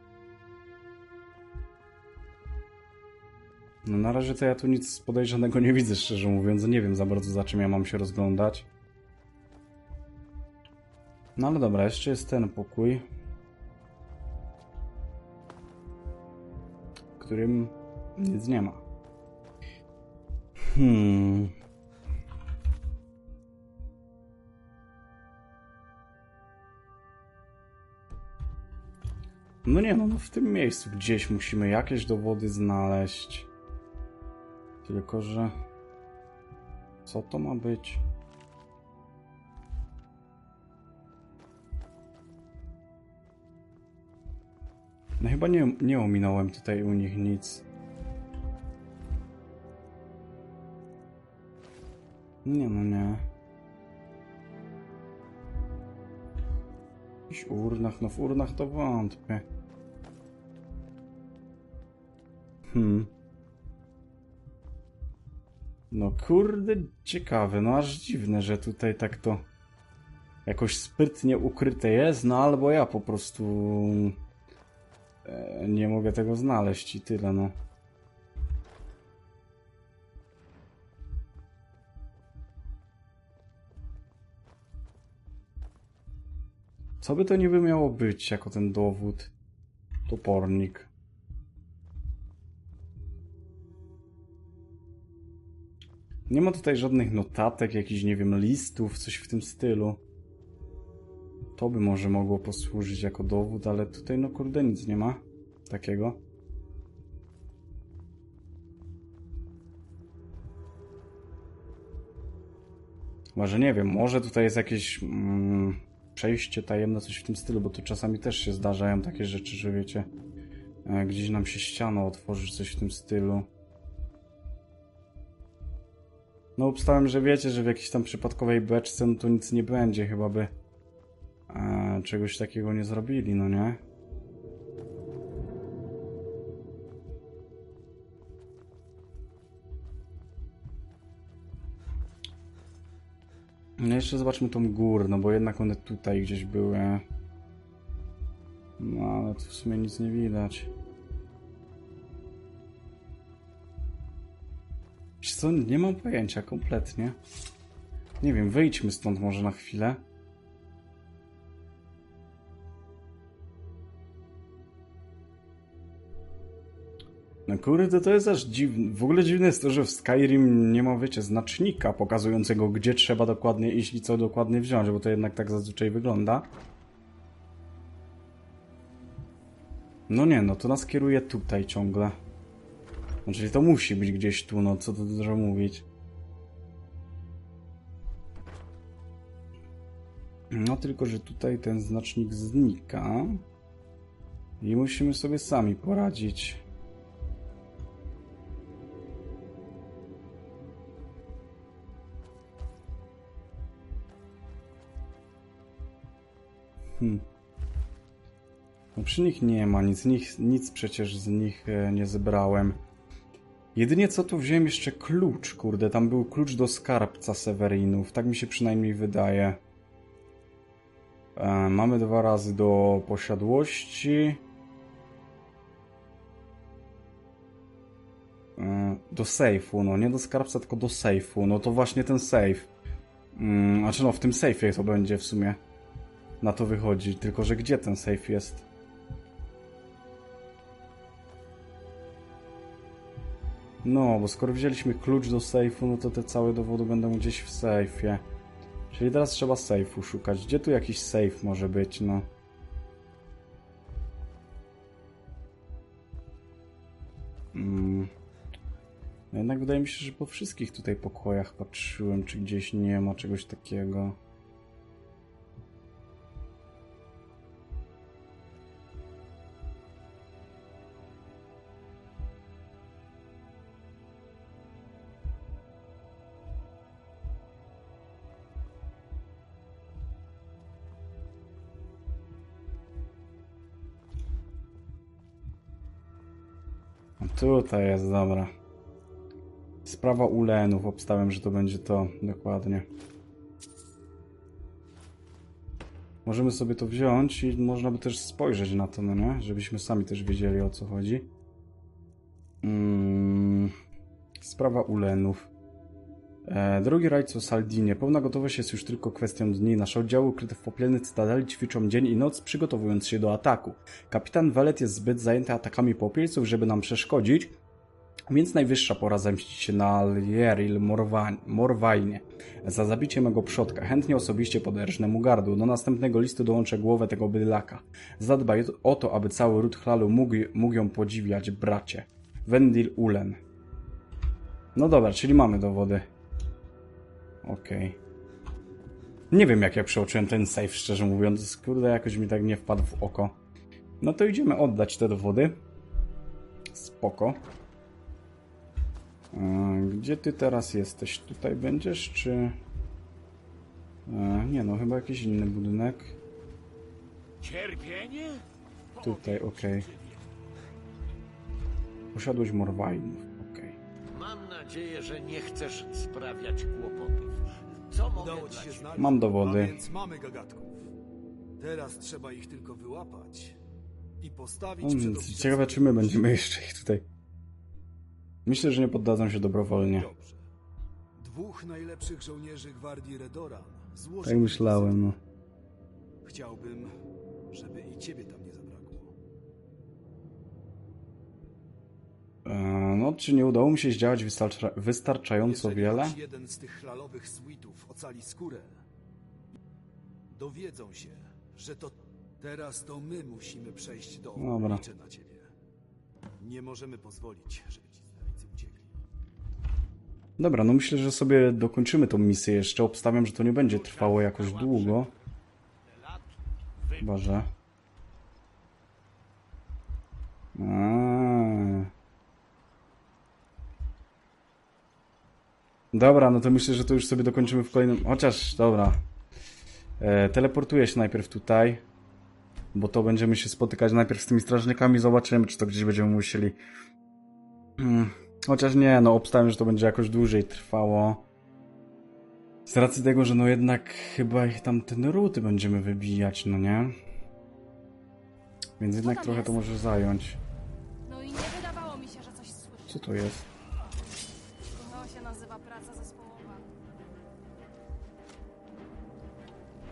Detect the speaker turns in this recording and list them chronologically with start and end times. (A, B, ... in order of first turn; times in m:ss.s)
0:03.8-0:08.6 A
0:11.4-0:13.0 A
0:17.2-0:18.8 A
0:20.7-0:21.5 A
0:29.6-0:33.5 A
0:34.8-0:35.6 A
0:37.0-0:38.0 A
0:45.2-0:47.6 A
0:52.4-0:53.2 A
0:57.3-0:59.4 A
1:02.7-1:03.1 A
1:05.9-1:09.4 A
1:10.4-1:14.2 A
1:15.2-1:17.6 A
1:27.0-1:29.3 A
1:30.1-1:30.9 A
1:36.3-1:40.0 A
1:41.6-1:46.2 A
1:53.4-2:00.1 A
2:00.8-2:03.5 A
2:06.6-2:10.5 A
2:11.5-2:13.8 A
2:23.8-2:27.0 A
2:28.8-2:30.7 A
2:35.2-2:37.2 A
2:38.2-2:40.0 A
2:47.5-2:56.5 A
3:00.1-3:02.2 A
3:03.2-3:05.8 A
3:10.5-3:13.4 A
3:14.6-3:16.6 A
3:27.0-3:27.2 A
3:28.9-3:32.8 A
3:33.7-3:39.6 A
3:41.4-3:44.4 A
3:48.6-3:52.7 A
3:53.3-3:55.6 A
3:56.4-3:58.6 A
4:03.8-4:08.2 A
4:08.9-4:12.3 A
4:17.5-4:18.1 A
4:19.3-4:24.2 A
4:47.2-4:48.5 A
4:49.8-4:52.9 A
4:56.2-5:01.3 A
5:02.6-5:03.7 A
5:04.4-5:05.5 A
5:06.4-5:17.6 A
5:18.3-5:33.4 A
5:34.7-5:36.1 A
5:37.4-5:38.0 A
5:39.3-5:43.4 A
5:44.0-5:45.6 A
5:46.7-5:47.4 A
5:49.3-5:52.6 A
5:54.1-5:56.2 A
5:57.4-6:00.4 B
5:59.0-5:59.9 A
6:02.1-6:03.8 A
6:04.1-6:09.1 B
6:08.1-6:10.8 C
6:09.0-6:09.8 A
6:11.6-6:13.6 C
6:14.2-6:16.3 C
6:14.8-6:17.0 A
6:18.4-6:20.1 A
6:19.9-6:20.4 C
6:21.2-6:25.0 C
6:24.2-6:25.2 A
6:26.2-6:26.9 C
6:27.5-6:29.1 C
6:32.4-6:36.2 A
6:35.4-6:38.8 C
6:40.3-6:45.5 C
6:44.4-6:44.8 A
6:46.4-6:48.9 C
6:50.4-6:55.1 A
6:53.5-6:55.2 B
6:55.8-6:57.1 B
6:57.0-6:57.5 A
7:00.5-7:01.9 A
7:05.9-7:09.0 A
7:10.0-7:11.8 A
7:12.7-7:16.6 A
7:17.8-7:21.2 A
7:22.6-7:27.0 A
7:28.8-7:30.4 A
7:29.0-7:29.8 D
7:31.0-7:33.0 D
7:32.9-7:33.4 A
7:34.7-7:36.6 D